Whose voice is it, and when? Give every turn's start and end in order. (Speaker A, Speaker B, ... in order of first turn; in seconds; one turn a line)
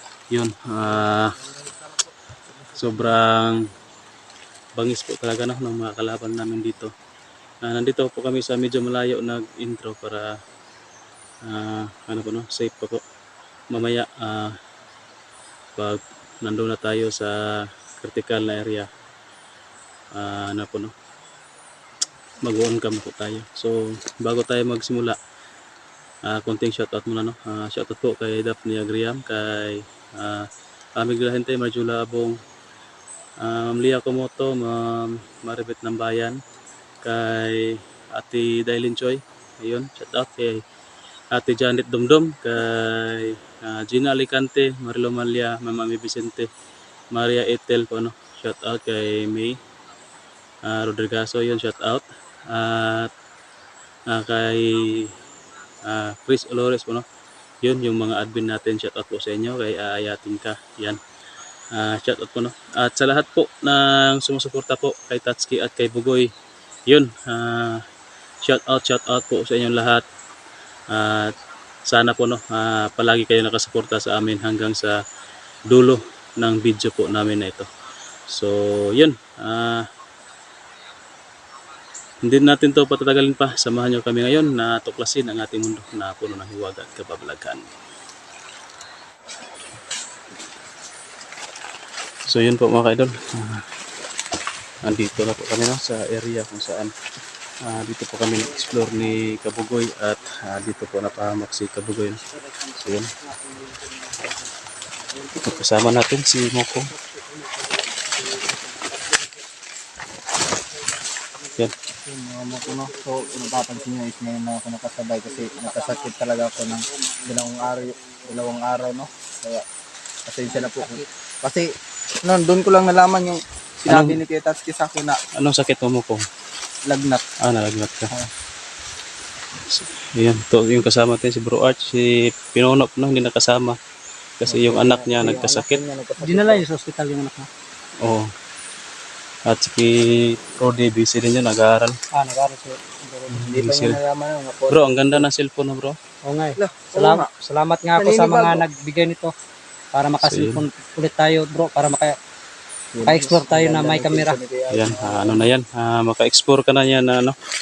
Speaker A: 0.3-1.3
Speaker B: 0.8-3.2
Speaker A: 2.8-3.6
Speaker A: 4.8-6.9
Speaker A: 7.6-10.4
Speaker A: 11.4-13.0
Speaker A: 13.7-14.6
Speaker A: 15.8-18.9
Speaker A: 20.1-20.9
Speaker A: 22.4-25.2
Speaker A: 26.2-32.4
Speaker A: 33.4-36.4
Speaker A: 37.0-40.6
Speaker A: 41.3-46.5
Speaker A: 47.1-49.6
Speaker A: 50.6-53.1
Speaker A: 54.1-55.2
Speaker A: 55.8-57.0
Speaker A: 57.6-61.0
Speaker A: 61.7-66.3
Speaker A: 66.9-67.8
Speaker A: 68.4-70.0
Speaker A: 70.9-71.3
Speaker A: 71.9-75.0
Speaker A: 75.7-77.7
Speaker A: 78.3-79.9
Speaker A: 82.2-87.7
Speaker A: 92.3-93.7
Speaker A: 94.8-96.9
Speaker A: 97.6-102.2
Speaker B: 98.4-99.4
Speaker B: 102.2-105.9
Speaker A: 102.8-103.1
Speaker A: 105.4-106.9
Speaker B: 106.9-109.5
Speaker B: 110.5-113.9
Speaker C: 112.1-119.7
Speaker B: 115.2-118.5
Speaker C: 120.3-121.7
Speaker B: 120.5-121.1
Speaker C: 122.2-125.2
Speaker A: 123.9-124.2
Speaker A: 125.4-126.2
Speaker C: 126.8-127.2
Speaker A: 127.4-128.1
Speaker A: 129.7-133.8
Speaker A: 134.4-135.8
Speaker C: 134.5-136.7
Speaker B: 136.2-137.5
Speaker A: 138.0-138.3
Speaker A: 139.5-142.0
Speaker B: 142.1-143.4
Speaker A: 143.3-144.0
Speaker C: 143.3-145.3
Speaker A: 144.7-146.0
Speaker B: 146.2-149.3
Speaker C: 146.6-147.3
Speaker C: 148.0-148.7
Speaker B: 149.9-152.2
Speaker A: 150.2-150.6
Speaker C: 152.9-155.5
Speaker B: 153.0-154.4
Speaker A: 154.7-157.4